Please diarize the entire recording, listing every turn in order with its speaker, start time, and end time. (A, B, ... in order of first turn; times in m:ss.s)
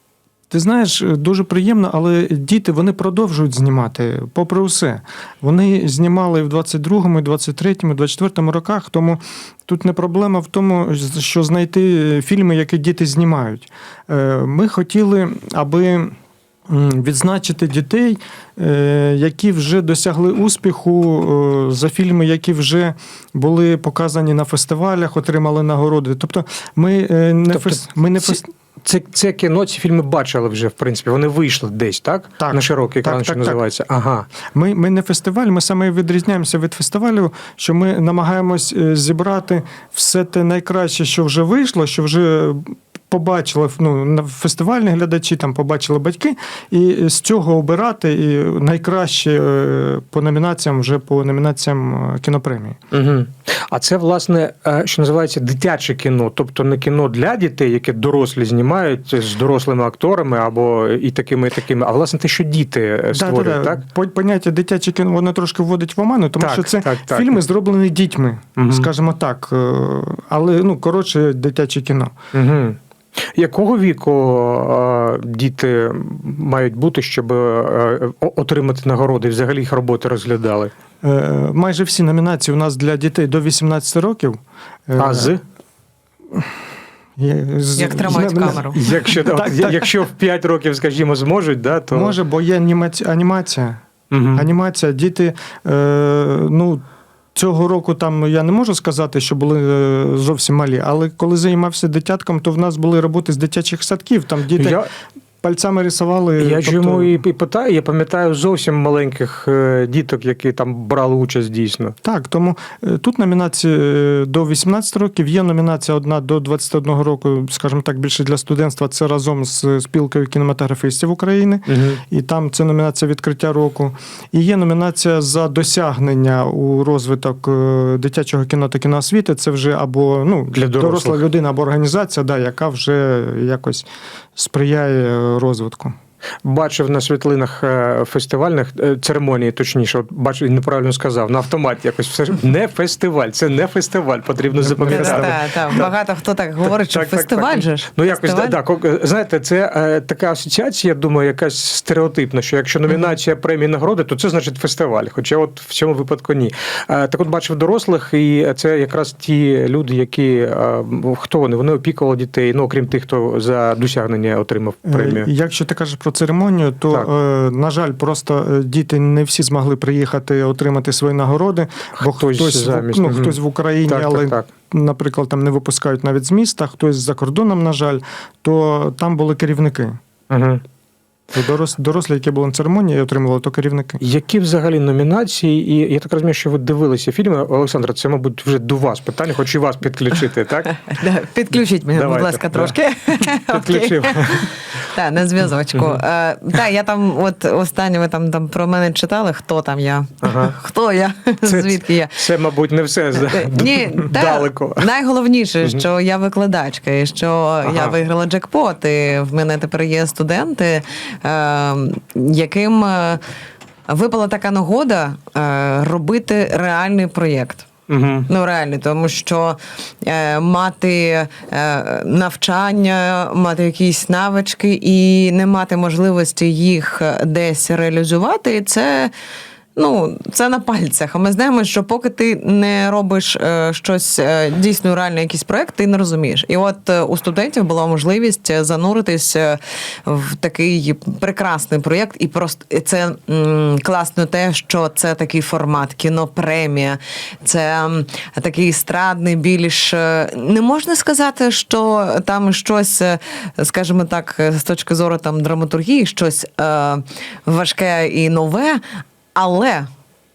0:00.5-0:16.2 A
0:16.7-0:28.5 A
0:27.5-0:34.3 B
0:32.4-0:33.6 A
0:34.5-0:52.8 A
0:52.9-1:03.8 B
1:03.1-1:12.2 A
1:06.4-1:07.4 B
1:08.6-1:08.9 B
1:12.3-1:12.8 B
1:13.4-1:20.7 B
1:21.0-1:25.4 A
1:25.0-1:25.4 B
1:27.2-1:29.9 A
1:27.8-1:28.8 C
1:28.5-1:32.2 B
1:31.9-1:33.8 A
1:34.1-1:34.5 B
1:34.3-1:36.8 A
1:37.4-1:44.8 A
1:44.6-1:44.9 B
1:45.4-1:47.2 A
1:46.4-1:52.0 B
1:52.0-2:16.0 A
2:01.7-2:02.0 B
2:10.5-2:11.2 B
2:16.4-2:25.9 B
2:24.6-2:25.4 A
2:24.9-2:28.6 C
2:26.8-2:45.3 B
2:44.9-3:00.0 A
2:52.0-2:54.5 B
3:00.3-3:00.6 B
3:01.3-3:04.0 A
3:04.0-3:10.8 B
3:10.8-3:22.2 C
3:12.0-3:12.8 B
3:13.5-3:14.5 B
3:20.2-3:20.6 B
3:21.4-3:24.9 B
3:23.2-3:33.2 C
3:27.7-3:28.0 B
3:33.9-3:37.7 C
3:37.9-3:38.3 B
3:38.3-3:49.1 C
3:49.8-4:18.8 C
4:19.3-4:19.9 C